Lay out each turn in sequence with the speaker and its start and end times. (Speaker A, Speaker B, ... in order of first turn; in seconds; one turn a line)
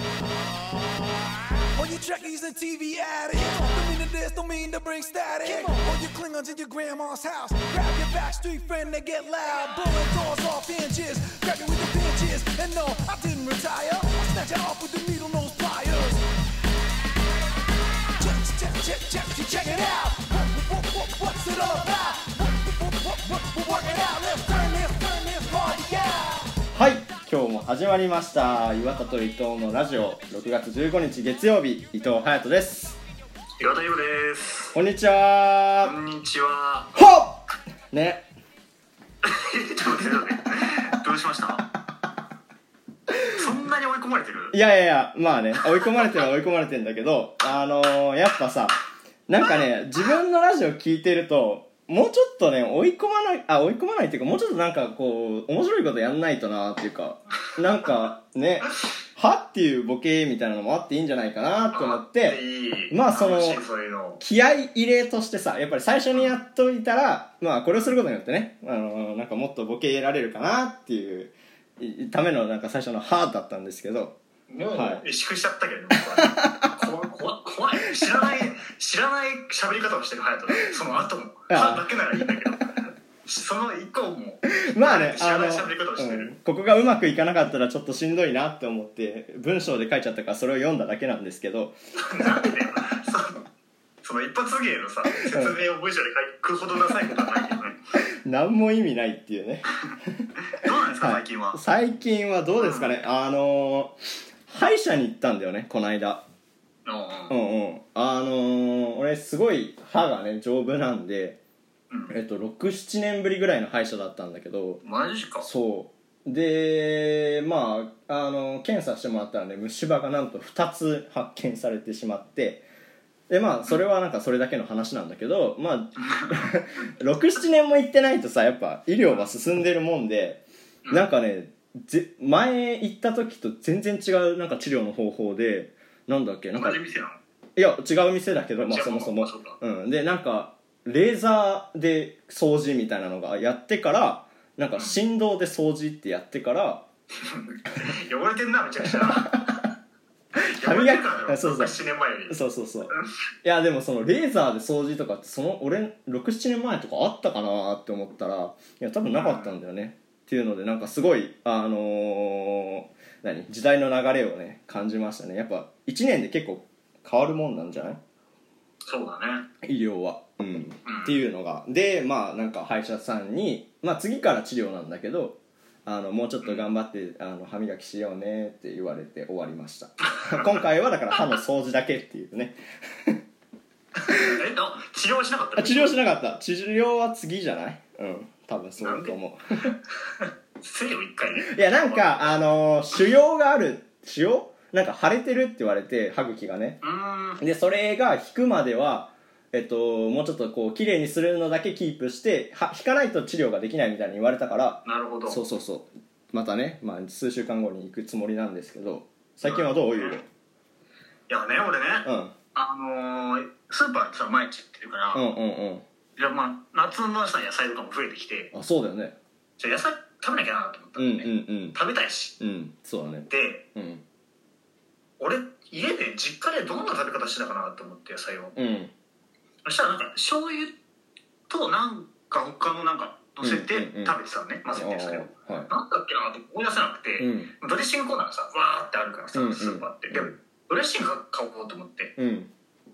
Speaker A: 0.4-1.1
Speaker B: 1.7-16.2
Speaker B: 18.2-26.5
Speaker A: 26.7-33.0
Speaker C: 33.6-34.7
Speaker A: 34.7-35.9
Speaker C: 35.8-36.9
Speaker A: 36.9-38.2
Speaker C: 39.2-41.6
Speaker C: 43.3-44.5
Speaker A: 44.5-63.6
Speaker C: 61.7-64.2
Speaker A: 64.2-74.2
Speaker C: 74.5-86.3
Speaker A: 74.7-75.0
Speaker A: 76.2-76.8
Speaker A: 81.5-82.4
Speaker A: 84.5-92.5
Speaker C: 92.0-93.4
Speaker C: 94.0-97.8
Speaker A: 95.2-95.5
Speaker A: 97.0-97.2
Speaker A: 98.2-100.3
Speaker C: 100.4-101.6
Speaker A: 101.0-106.2
Speaker C: 102.6-102.9
Speaker C: 106.8-107.3
Speaker A: 107.3-111.4
Speaker C: 111.9-112.2
Speaker A: 112.1-114.8
Speaker C: 114.8-115.5
Speaker A: 115.4-122.6
Speaker A: 123.3-136.8
Speaker C: 126.1-126.4
Speaker C: 136.6-137.2
Speaker A: 137.6-146.8
Speaker C: 138.6-139.6
Speaker C: 147.2-149.6
Speaker A: 148.9-149.6
Speaker C: 150.3-152.4
Speaker A: 150.5-151.8
Speaker A: 152.3-168.0
Speaker C: 159.1-159.6
Speaker C: 168.9-169.5
Speaker A: 169.6-183.2
Speaker C: 170.8-171.2
Speaker C: 176.4-176.7
Speaker C: 180.1-180.5
Speaker C: 184.0-185.9
Speaker A: 185.6-189.7
Speaker C: 188.8-189.1
Speaker C: 189.7-192.4
Speaker A: 191.4-196.8
Speaker C: 196.8-197.4
Speaker A: 197.4-210.2
Speaker C: 204.8-205.4
Speaker C: 209.4-210.2
Speaker C: 211.3-215.2
Speaker A: 212.0-212.3
Speaker A: 215.1-215.8
Speaker C: 216.2-218.5
Speaker A: 218.5-219.2
Speaker C: 219.6-222.3
Speaker A: 221.0-221.8
Speaker A: 222.4-224.0
Speaker C: 223.3-223.7
Speaker C: 225.2-228.5
Speaker A: 228.5-228.9
Speaker C: 229.6-230.7
Speaker C: 231.5-242.1
Speaker A: 233.4-234.2
Speaker A: 234.7-235.7
Speaker A: 237.2-237.5
Speaker A: 239.3-240.3
Speaker A: 242.2-242.5